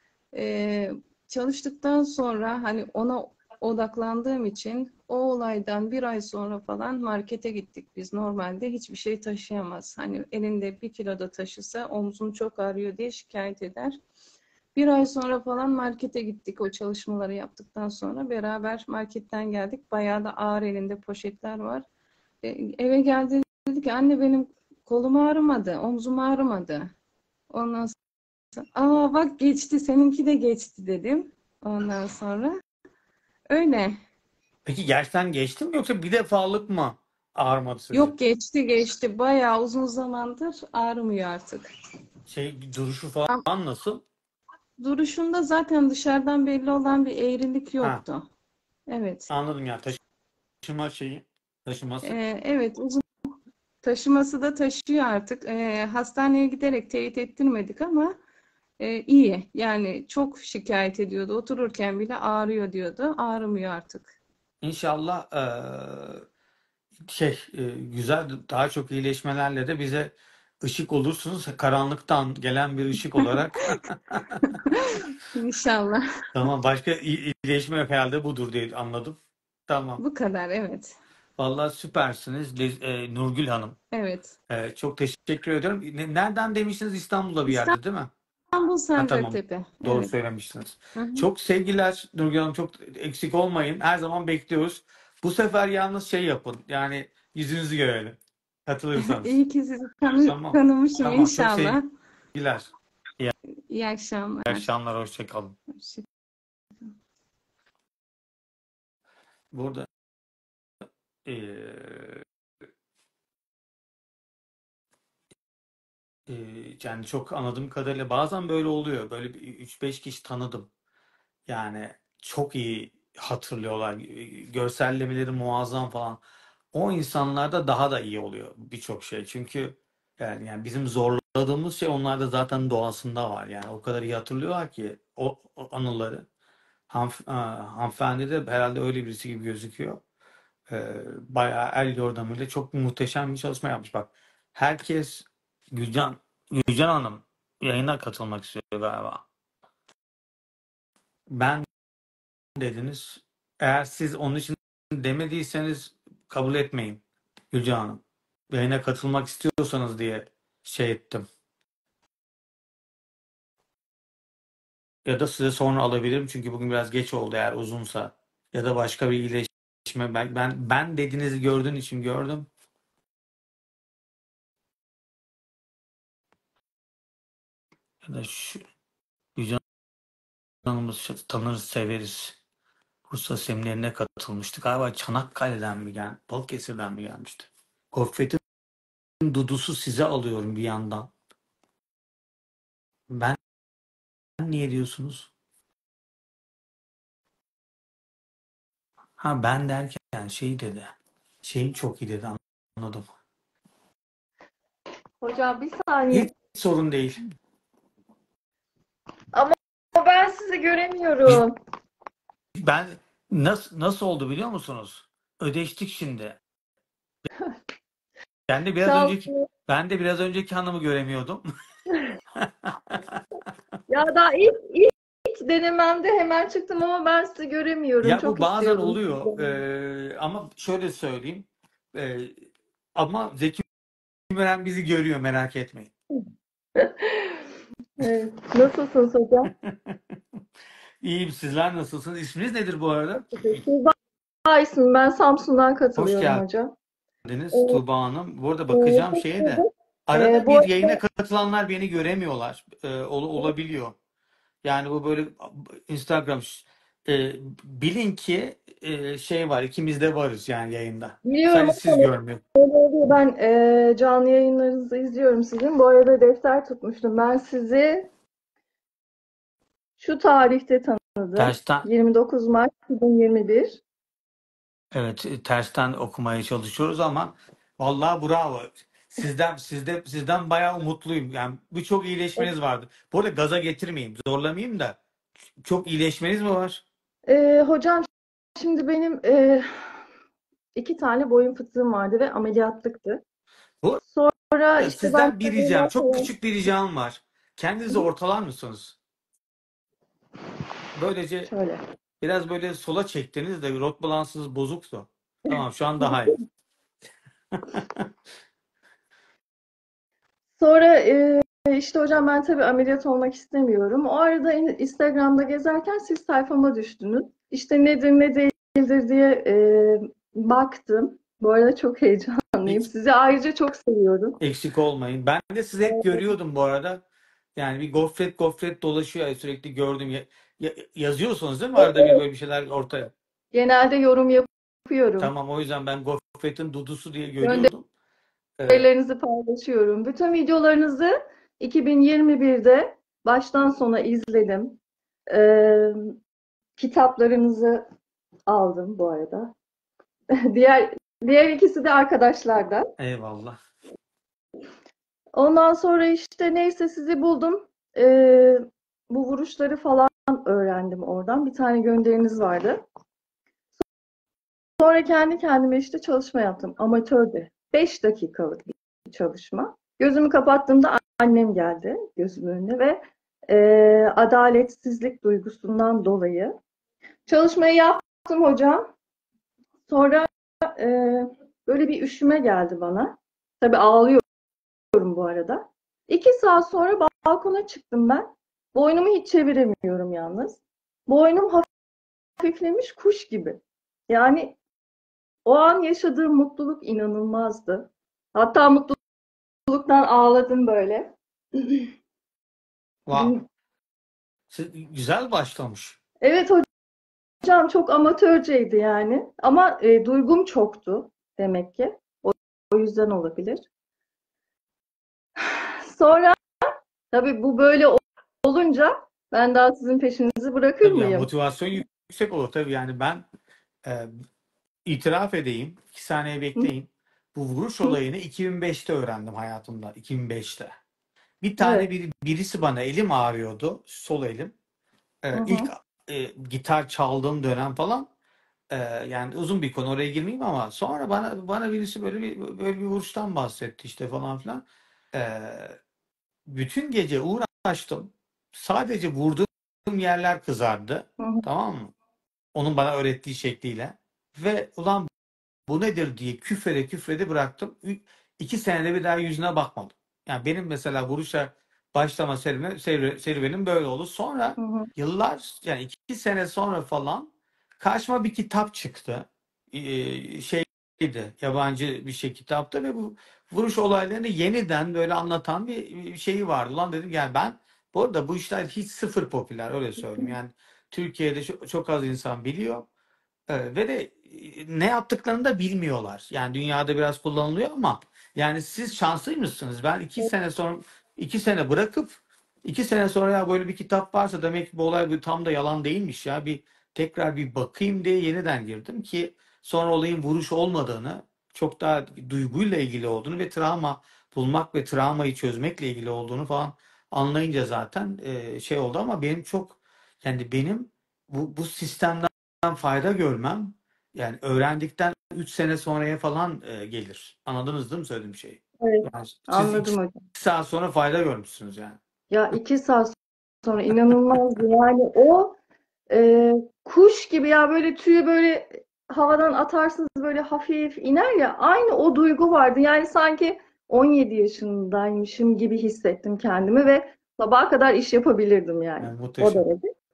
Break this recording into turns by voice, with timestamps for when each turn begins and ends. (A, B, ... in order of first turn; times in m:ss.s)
0:00.3-0:14.0 A
0:14.8-0:21.9 A
0:22.4-0:26.9 A
0:27.5-0:28.0 A
0:28.6-0:32.6 A
0:33.5-0:34.0 A
0:34.7-0:38.1 B
0:37.9-0:41.7 A
0:42.3-0:44.0 B
0:44.8-0:48.3 A
0:48.9-0:49.3 A
0:49.3-0:50.0 B
0:50.6-0:52.2 B
0:52.0-0:53.0 A
0:53.8-0:58.1 A
0:58.8-1:04.1 A
1:04.6-1:06.2 B
1:07.1-1:14.6 B
1:14.4-1:16.2 A
1:16.3-1:19.2 B
1:19.7-1:20.0 B
1:20.0-1:21.0 A
1:21.4-1:23.8 B
1:23.9-1:24.3 A
1:24.5-1:28.1 B
1:27.5-1:27.8 A
1:28.5-1:30.1 A
1:29.0-1:39.4 B
1:31.0-1:31.3 A
1:39.0-1:41.8 A
1:40.2-1:41.8 B
1:42.3-1:43.3 B
1:43.7-1:44.7 A
1:44.5-1:45.6 B
1:45.7-1:46.1 A
1:49.5-1:49.9 B
1:51.2-1:52.2 B
1:56.3-2:00.7 B
2:01.5-2:06.2 B
2:06.7-2:16.3 B
2:16.9-2:20.0 B
2:20.7-2:29.2 B
2:31.3-2:31.7 B
2:32.6-2:37.0 B
2:37.5-2:41.3 B
2:45.0-2:52.5 B
2:58.0-2:58.6 B
2:59.4-2:59.6 B
3:00.6-3:02.4 B
3:03.1-3:08.4 B
3:09.2-3:11.1 B
3:13.1-3:13.4 B
3:14.4-3:15.3 B
3:19.2-3:20.9 B
3:21.4-3:23.1 B
3:25.2-3:26.3 C
3:26.1-3:27.2 B
3:29.3-3:31.6 C
3:32.6-3:36.4 B
3:38.5-3:41.5 B
3:38.8-3:39.5 C
3:42.4-3:43.2 B
3:43.9-3:49.6 C
3:48.0-3:52.4 B
3:53.0-3:53.7 B
3:54.3-3:55.9 B
3:56.8-3:59.5 C
3:59.5-4:00.1 B
4:01.0-4:03.6 B
4:03.3-4:06.7 C
4:06.0-4:06.4 B
4:07.2-4:14.0 B
4:07.5-4:07.8 C
4:08.7-4:11.0 C
4:14.6-4:22.4 B
4:21.2-4:28.1 C
4:30.0-4:33.8 C
4:31.4-4:31.9 B
4:34.9-4:45.0 B
4:45.7-4:46.8 B
4:47.3-4:50.0 C
4:50.8-4:53.2 C
4:54.0-4:56.3 C
4:54.8-4:59.0 B
5:01.0-5:01.5 B
5:01.5-5:01.8 C
5:02.2-5:06.4 B
5:05.5-5:06.4 C
5:07.5-5:08.1 B
5:10.6-5:24.4 C
5:24.4-5:27.0 B
5:25.9-5:26.2 C
5:27.6-5:33.1 B
5:31.8-5:32.2 C
5:33.5-5:35.3 C
5:35.2-5:37.9 B
5:37.4-5:37.7 C
5:38.6-5:38.9 B
5:38.7-5:44.8 C
5:45.3-5:46.2 C
5:46.8-5:47.8 C
5:48.5-5:49.5 C
5:50.5-5:52.9 C
5:53.0-5:53.6 B
5:55.4-6:02.8 C
6:04.8-6:16.6 C
6:17.3-6:18.9 C
6:19.9-6:24.2 C
6:24.9-6:31.7 C
6:32.4-6:34.6 C
6:35.5-6:39.0 C
6:39.7-6:41.9 C
6:43.1-6:43.4 B
6:43.1-6:43.4 C
6:44.5-6:46.0 B
6:46.2-6:46.7 C
6:47.4-6:53.6 C
6:55.4-7:01.3 C
7:00.8-7:03.2 B
7:03.8-7:04.2 B
7:04.8-7:10.8 B
7:11.4-7:14.5 B
7:11.6-7:11.9 C
7:15.2-7:18.1 B
7:15.3-7:15.7 C
7:18.7-7:24.6 B
7:25.1-7:25.8 B
7:26.5-7:31.9 B
7:31.2-7:31.4 C
7:32.6-7:35.1 B
7:35.7-8:02.9 B
7:44.6-7:44.9 C
8:03.5-8:42.0 B
8:38.8-8:40.2 C
8:42.3-8:45.6 C
8:46.1-8:59.9 C
8:59.0-8:59.7 B